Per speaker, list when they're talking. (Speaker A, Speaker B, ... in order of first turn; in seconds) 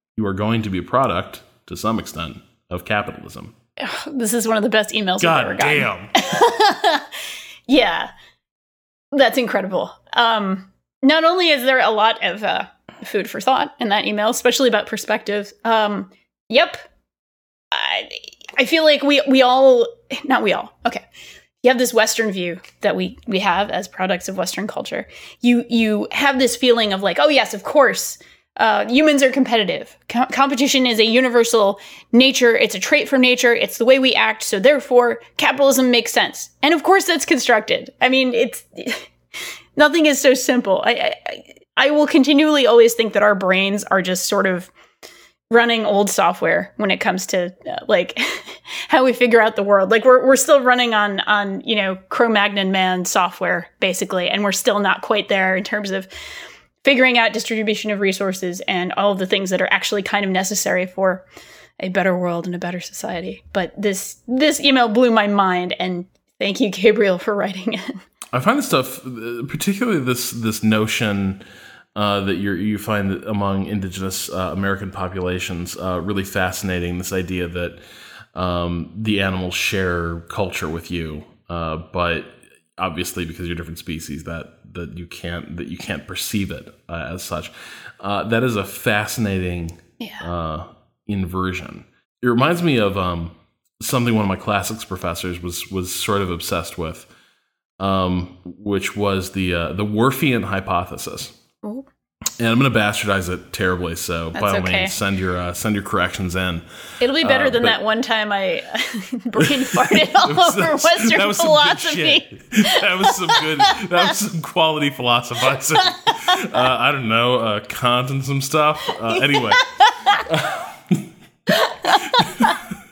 Speaker A: 0.1-3.5, 5.2-6.1, 68.3-71.4, 72.0-77.8, 78.3-97.1, 97.8-101.3, 102.4-106.6, 107.2-107.8, 109.4-121.1, 121.9-122.6
Speaker B: 3.8-7.1, 7.7-8.1, 9.1-16.8, 17.7-21.1, 21.6-39.1, 39.8-44.7, 45.5-56.1, 56.8-61.2, 61.8-68.0, 90.0-90.3, 104.3-105.0, 107.0-113.8, 116.1-116.6, 119.1-120.3, 121.5-122.6